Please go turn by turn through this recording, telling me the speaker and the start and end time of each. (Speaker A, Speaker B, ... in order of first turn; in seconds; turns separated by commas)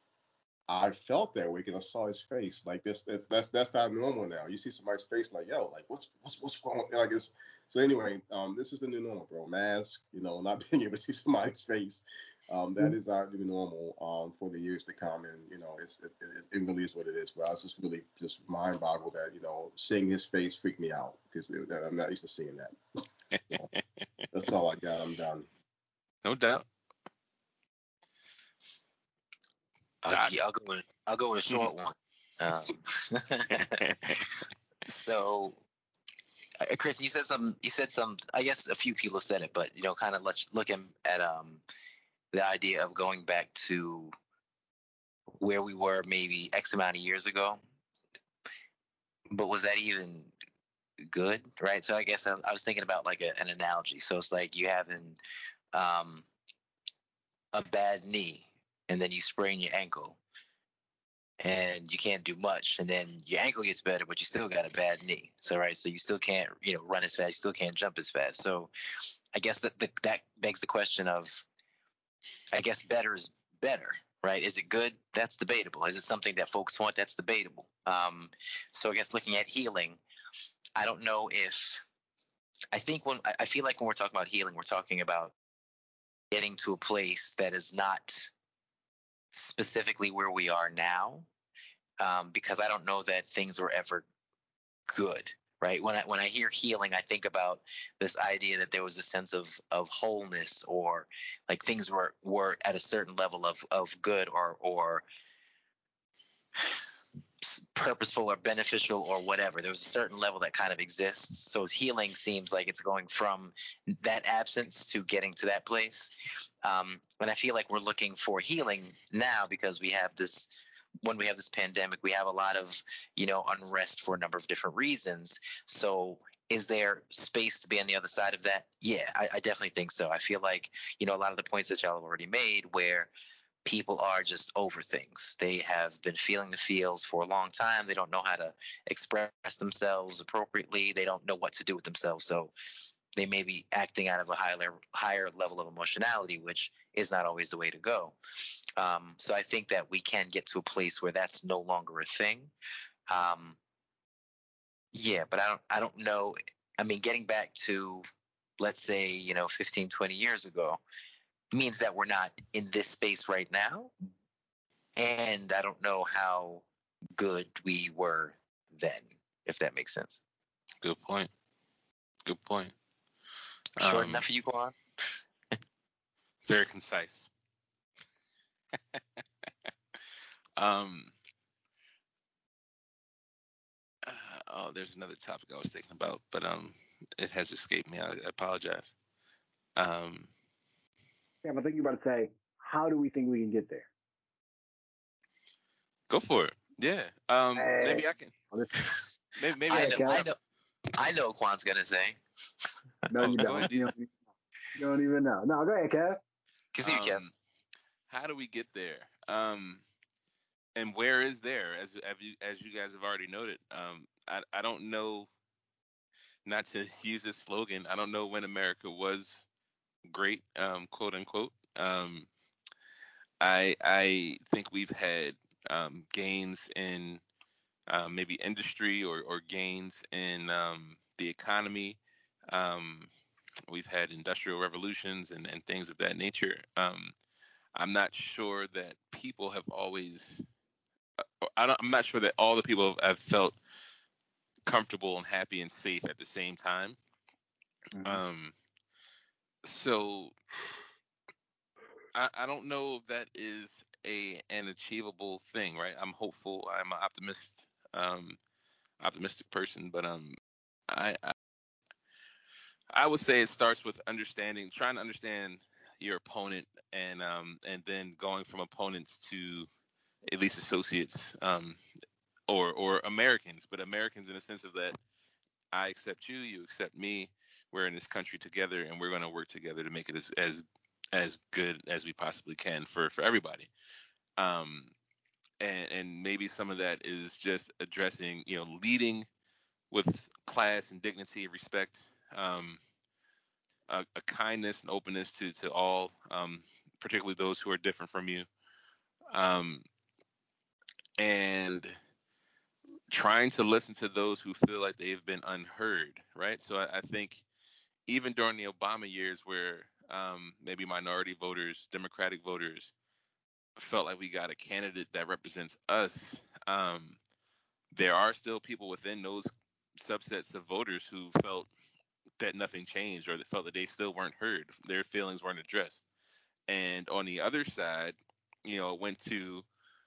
Speaker A: 0.7-22.8, Speaker B: 23.5-23.8, Speaker A: 24.3-25.5, Speaker B: 26.2-26.6, Speaker C: 30.0-35.6, Speaker B: 30.1-30.4, Speaker B: 33.5-34.2, Speaker C: 36.6-41.6, Speaker C: 42.3-44.1, Speaker C: 45.4-47.6, Speaker C: 49.3-50.3, Speaker C: 51.1-55.2, Speaker C: 55.7-56.3, Speaker C: 57.5-60.2, Speaker C: 61.4-68.7, Speaker C: 69.3-71.5, Speaker C: 72.5-80.0, Speaker C: 80.8-81.9, Speaker C: 82.7-85.3, Speaker C: 86.3-88.3, Speaker C: 89.3-91.3, Speaker C: 92.0-94.0, Speaker C: 94.9-105.1, Speaker C: 107.4-133.1, Speaker C: 133.7-142.5, Speaker C: 143.2-148.2, Speaker C: 148.8-152.5, Speaker C: 153.1-153.6, Speaker C: 154.9-158.1, Speaker C: 158.6-160.8, Speaker C: 161.5-163.9, Speaker C: 165.0-166.6, Speaker C: 167.2-170.2, Speaker B: 170.8-171.3, Speaker B: 172.2-172.8, Speaker B: 173.8-174.2, Speaker C: 173.8-174.8, Speaker B: 176.5-177.3, Speaker B: 180.6-181.1, Speaker B: 184.0-188.9, Speaker B: 189.8-190.3, Speaker D: 191.4-193.9, Speaker B: 196.1-198.3, Speaker D: 197.6-199.1, Speaker B: 199.4-200.2, Speaker C: 199.7-200.4, Speaker D: 199.7-200.2, Speaker C: 200.9-202.2, Speaker D: 203.1-204.1, Speaker B: 203.2-203.9, Speaker D: 204.8-206.2, Speaker C: 206.8-207.3, Speaker B: 206.8-207.3, Speaker B: 208.1-209.8, Speaker B: 210.8-215.3, Speaker B: 216.5-219.5, Speaker B: 220.1-222.3, Speaker B: 223.4-227.2, Speaker B: 227.9-232.0, Speaker B: 232.5-233.1, Speaker B: 233.7-237.1, Speaker B: 237.8-240.4, Speaker B: 241.2-243.6, Speaker B: 244.7-247.0, Speaker B: 248.0-248.5, Speaker B: 249.6-250.3, Speaker B: 252.1-258.4, Speaker B: 259.0-260.4, Speaker B: 260.9-261.3, Speaker B: 262.9-269.7, Speaker B: 270.3-271.8, Speaker B: 272.5-275.0, Speaker B: 275.7-283.7, Speaker B: 284.4-284.9, Speaker B: 285.6-289.3, Speaker B: 289.9-292.8, Speaker B: 293.9-298.5, Speaker B: 299.3-299.9, Speaker B: 301.2-301.9, Speaker B: 303.1-307.4, Speaker B: 308.1-312.9, Speaker B: 313.8-317.2, Speaker B: 317.9-321.7, Speaker B: 322.4-326.1, Speaker B: 326.7-329.6